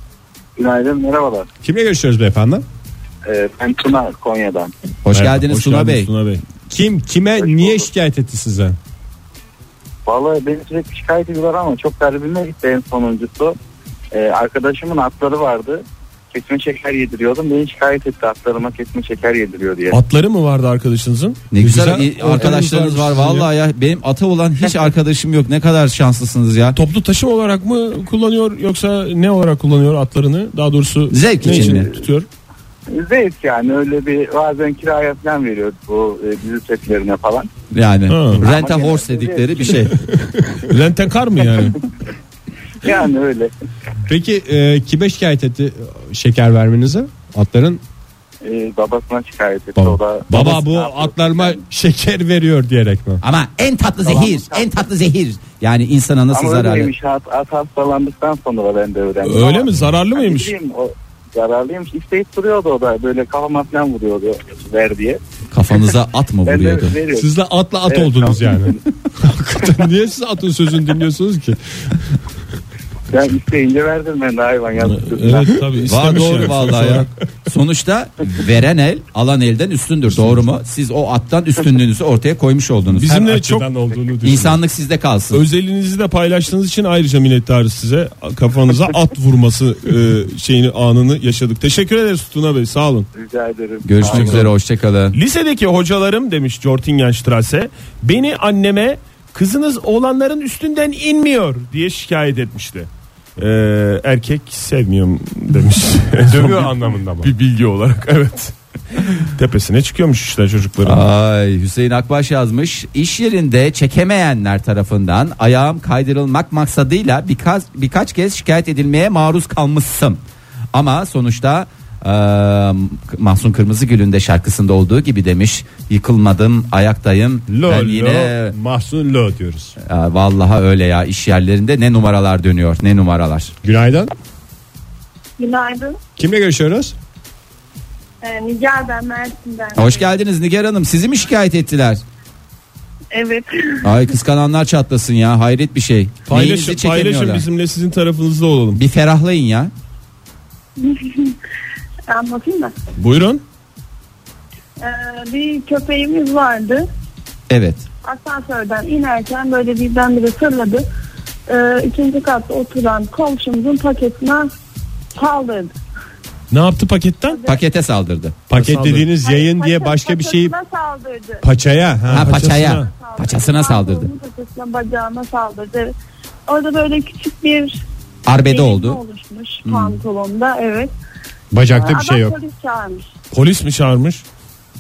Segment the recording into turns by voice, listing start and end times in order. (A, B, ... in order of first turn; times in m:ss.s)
0:00.6-0:01.5 A
0:01.6-0:02.6 B
0:03.2-0:04.7 A
0:05.0-0:06.1 C
0:05.2-0:06.4 D
0:06.7-0:08.8 B
0:07.4-0:07.9 A
0:10.0-0:13.6 A
0:14.1-0:20.0 A
0:19.9-0:21.4 D
0:21.5-0:26.8 C
0:21.6-0:23.5 B
0:26.7-0:32.3 D
0:31.1-0:31.9 C
0:32.9-0:37.5 A
0:37.7-0:40.0 C
0:38.1-0:38.4 D
0:38.4-0:39.8 A
0:40.6-0:41.8 D
0:42.8-0:43.5 A
0:44.1-0:47.8 B
0:48.4-0:51.6 A
0:49.8-0:53.2 B
0:53.2-0:56.9 C
0:54.0-0:54.8 A
0:56.3-1:05.2 A
0:59.2-1:00.5 D
1:05.5-1:07.0 C
1:06.4-1:07.3 A
1:07.1-1:12.0 B
1:07.9-1:08.8 A
1:13.1-1:15.6 A
1:14.8-1:17.1 D
1:15.8-1:23.1 C
1:22.9-1:23.7 D
1:23.0-1:24.6 B
1:24.2-1:25.4 C
1:25.3-1:33.1 D
1:33.1-1:34.5 A
1:33.8-1:35.2 C
1:34.0-1:34.5 D
1:35.1-1:51.0 D
1:46.2-1:47.3 B
1:50.8-2:00.2 C
2:00.7-2:08.5 C
2:07.5-2:09.7 B
2:09.8-2:13.5 C
2:13.6-2:14.1 B
2:15.4-2:16.0 E
2:16.2-2:16.9 B
2:18.2-2:20.1 E
2:19.7-2:22.0 C
2:23.1-2:23.9 E
2:23.8-2:27.4 C
2:26.3-2:28.8 D
2:28.7-2:29.7 C
2:30.8-2:31.4 E
2:32.1-2:32.7 E
2:33.0-2:33.4 D
2:34.8-2:36.9 E
2:37.5-2:37.8 C
2:38.0-2:40.8 E
2:41.5-2:44.5 E
2:45.1-2:45.7 E
2:46.5-2:47.4 D
2:47.3-2:47.6 E
2:47.4-2:48.3 C
2:48.5-2:50.5 B
2:48.5-2:49.1 D
2:49.2-2:51.4 E
2:51.4-2:52.4 B
2:52.1-2:52.9 D
2:52.1-2:54.1 C
2:52.8-2:55.9 E
2:56.5-2:57.8 E
2:58.3-2:59.0 C
2:58.4-3:00.9 E
2:59.6-3:00.0 C
3:01.5-3:02.4 B
3:01.7-3:03.1 E
3:03.3-3:04.2 D